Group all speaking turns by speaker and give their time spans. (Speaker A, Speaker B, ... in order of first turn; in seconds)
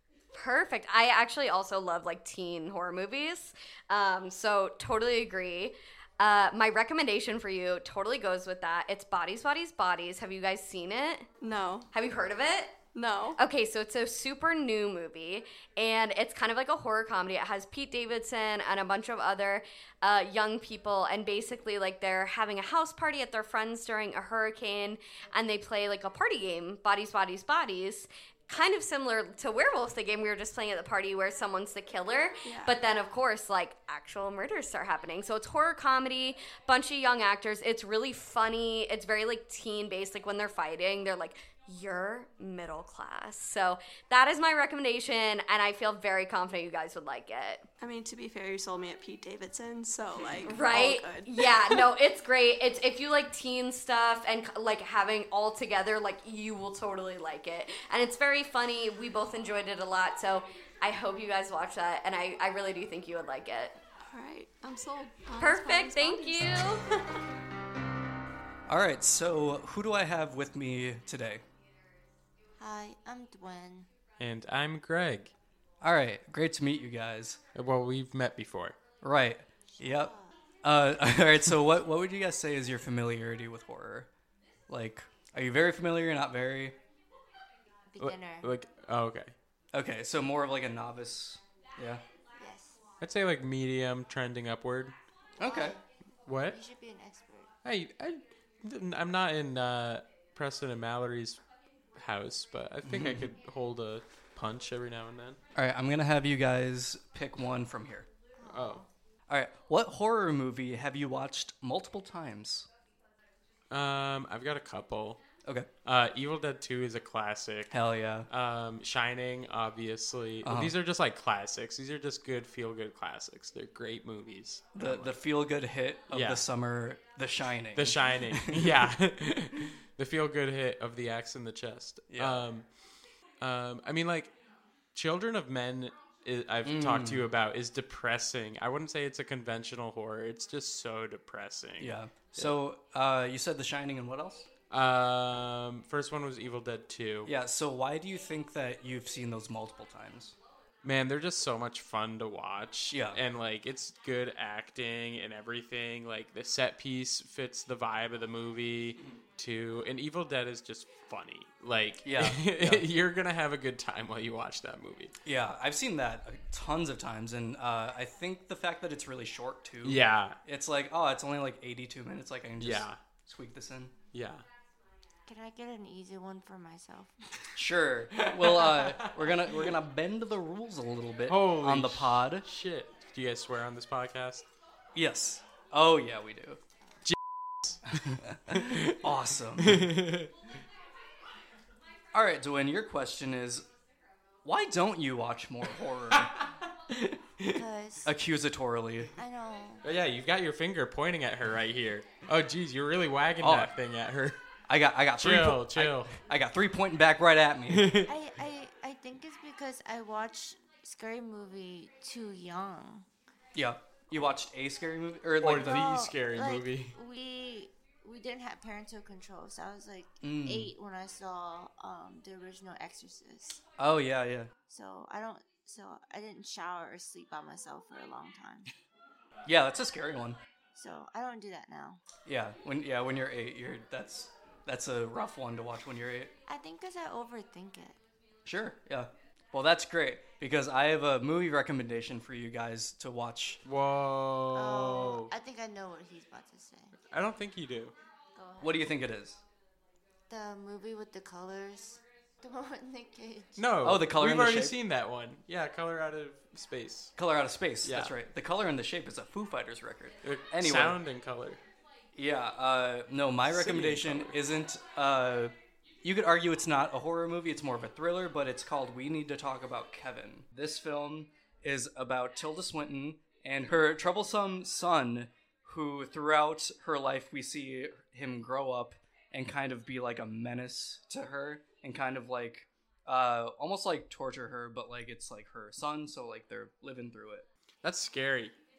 Speaker A: 0.3-11.3, 11.9-12.8, 13.4-47.6, 50.4-63.8, 65.4-66.8
Speaker B: 11.4-11.9, 12.9-13.4, 32.4-32.8, 47.8-51.5, 64.0-66.7
Speaker C: 68.7-71.4, 75.8-77.4, 79.0-84.1, 84.7-86.8, 89.7-92.0, 95.4-95.8, 102.8-103.3, 105.5-108.1, 109.3-112.7, 115.4-115.7, 117.7-118.3, 120.4-120.7, 124.7-129.0, 132.1-132.5, 136.6-137.3, 141.8-144.5, 147.2-150.3, 152.9-153.2, 162.0-162.8, 165.2-173.9, 177.6-182.4, 184.9-186.6, 187.9-189.9, 192.1-193.7, 194.4-196.3, 198.0-199.1, 203.4-203.7, 204.7-207.9, 213.5-215.9, 220.2-220.7, 223.8-224.5, 229.4-230.4, 232.2-236.3, 238.4-243.6, 248.6-249.4, 253.8-254.8, 257.1-261.0, 262.1-287.4
Speaker D: 72.6-73.9, 79.7-80.4, 87.9-88.5, 92.3-92.9, 95.4-95.8, 96.5-97.5, 108.4-108.8, 175.2-177.1, 197.5-198.1, 199.1-199.8, 208.1-213.1, 215.6-223.6, 224.7-228.7, 230.7-232.0, 236.4-238.0, 244.5-246.9, 248.3-248.8, 250.3-253.7
Speaker E: 74.2-75.3, 77.5-78.8, 88.0-89.3, 93.0-94.9, 96.2-96.6, 97.6-101.4, 102.0-105.4, 108.4-108.8, 113.7-115.2, 115.8-117.8, 118.3-125.1, 126.1-126.4, 127.7-132.7, 133.4-134.3, 134.9-142.5, 144.7-147.3, 150.8-165.1, 169.8-170.4, 172.6-173.0, 174.1-174.4, 178.4-179.6, 181.3-184.4, 187.0-187.8, 188.5-189.1, 189.6-190.3, 199.8-204.4, 205.2-206.1, 207.7-208.1, 215.4-216.9, 243.6-245.3, 247.1-247.9, 253.6-257.1, 257.8-258.1, 260.2-261.6, 263.5-264.3, 287.8-288.5